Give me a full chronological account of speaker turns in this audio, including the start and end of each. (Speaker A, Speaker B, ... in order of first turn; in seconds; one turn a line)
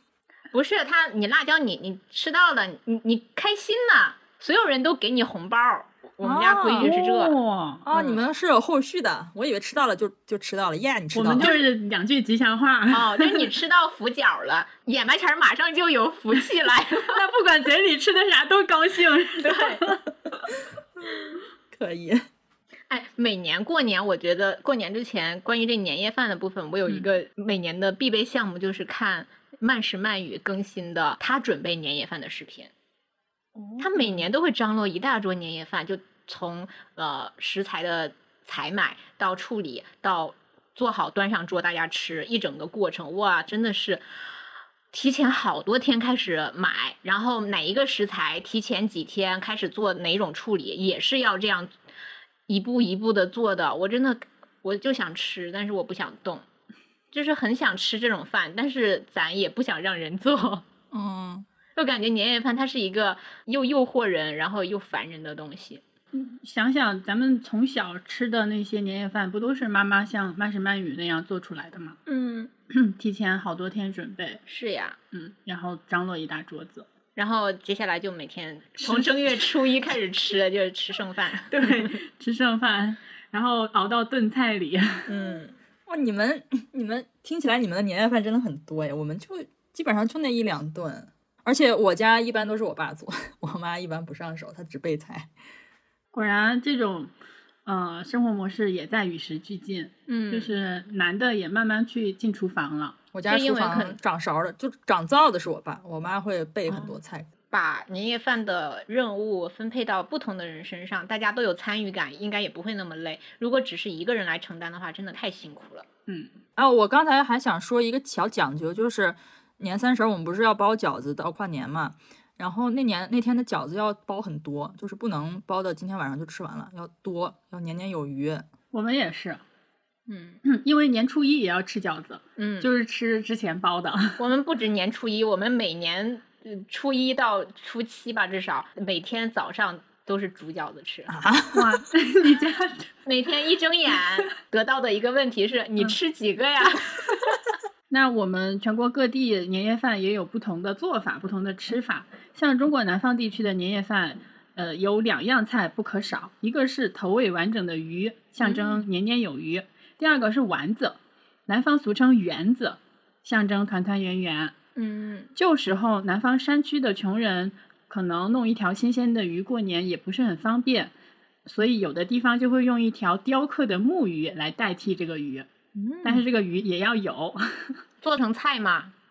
Speaker A: 0.5-7.3
Speaker B: 6.2-6.9
Speaker C: 6.8-7.8
Speaker B: 7.8-11.5
Speaker A: 7.9-8.2
Speaker C: 11.1-13.5
Speaker A: 12.9-17.2
Speaker C: 17.0-20.0
Speaker A: 19.4-19.9
Speaker B: 21.7-22.2
Speaker A: 22.9-32.7
Speaker C: 33.5-34.2
Speaker A: 33.8-44.0
Speaker A: 44.9-51.7
Speaker A: 52.5-56.5
Speaker A: 57.1-60.6
Speaker B: 60.9-61.5
Speaker A: 61.8-65.8
Speaker C: 66.1-72.0
Speaker A: 72.1-72.5
Speaker C: 72.7-74.4
Speaker A: 74.5-75.0
Speaker C: 75.1-76.8
Speaker A: 77.2-81.9
Speaker C: 78.8-79.5
Speaker C: 81.5-85.1
Speaker A: 85.1-85.5
Speaker B: 85.9-95.3
Speaker C: 96.1-97.1
Speaker C: 97.7-103.0
Speaker A: 100.1-100.5
Speaker B: 103.1-107.3
Speaker A: 103.2-104.0
Speaker A: 107.5-115.8
Speaker B: 116.6-128.4
Speaker C: 128.7-129.4
Speaker A: 130.1-130.4
Speaker C: 130.4-134.2
Speaker A: 132.4-132.7
Speaker A: 134.2-141.1
Speaker B: 141.1-141.8
Speaker C: 141.5-142.9
Speaker A: 143.1-147.1
Speaker C: 147.9-161.0
Speaker A: 158.4-158.8
Speaker C: 161.5-164.5
Speaker A: 164.8-165.3
Speaker C: 165.3-170.9
Speaker C: 171.4-175.5
Speaker A: 175.7-176.2
Speaker C: 176.0-177.8
Speaker A: 178.0-178.9